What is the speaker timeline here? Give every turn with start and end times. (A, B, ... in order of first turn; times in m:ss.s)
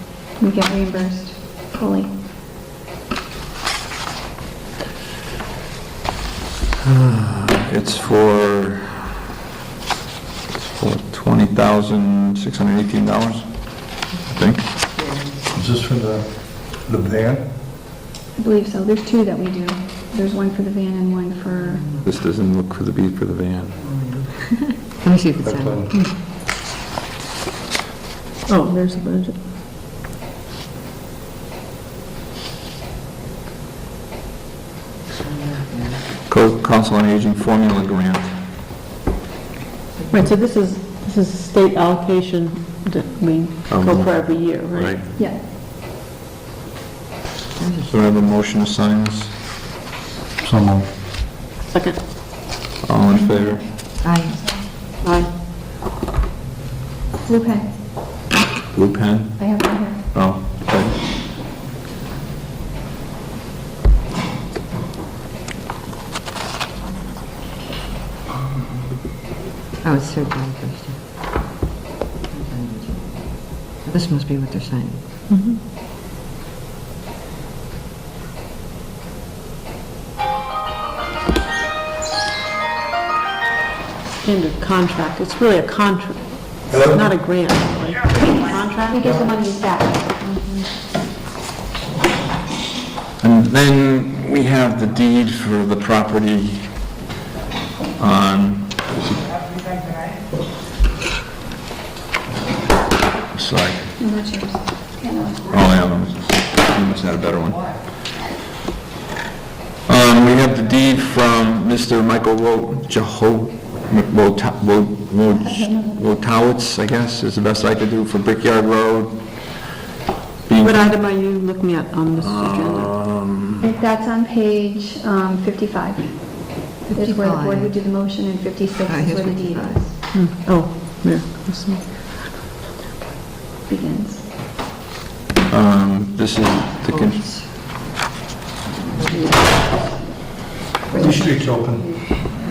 0:00.4-0:02.1 A
0:06.8-0:09.1 B
0:10.7-0:13.5 B
0:14.3-0:14.7 B
0:15.5-0:17.4 C
0:18.4-0:21.9 A
0:22.0-0:23.8 B
0:24.9-0:25.9 D
0:25.4-0:26.0 C
0:28.5-0:29.4 E
0:36.3-0:38.3 B
0:40.1-0:45.0 E
0:43.7-0:45.0 B
0:47.6-0:48.2 D
0:47.9-0:49.3 B
0:50.4-0:50.9 C
0:51.7-0:52.0 E
0:52.8-0:53.7 B
0:53.3-0:53.6 A
0:54.0-0:54.5 D
0:54.3-0:54.6 A
0:55.0-0:55.3 E
0:57.2-0:57.7 A
0:58.7-1:01.0 B
0:59.4-1:00.0 A
1:09.8-1:11.0 D
1:12.4-1:15.0 D
1:15.3-1:15.6 E
1:24.2-1:29.0 E
1:26.7-1:27.1 C
1:28.9-1:30.6 A
1:33.2-1:36.8 B
1:38.0-1:39.2 B
1:43.3-1:43.9 B
1:44.0-1:45.4 A
1:45.5-1:47.7 B
1:49.9-1:59.2 B
1:55.4-1:55.9 A
2:00.5-2:01.0 B
2:00.6-2:03.0 E
2:02.2-2:03.7 B
2:03.6-2:09.9 A
2:06.9-2:07.7 D
2:08.9-2:09.9 D
2:10.1-2:12.1 E
2:13.7-2:14.2 A
2:15.5-2:17.3 B
2:16.9-2:17.4 D
2:19.0-2:19.8 D
2:20.9-2:21.9 C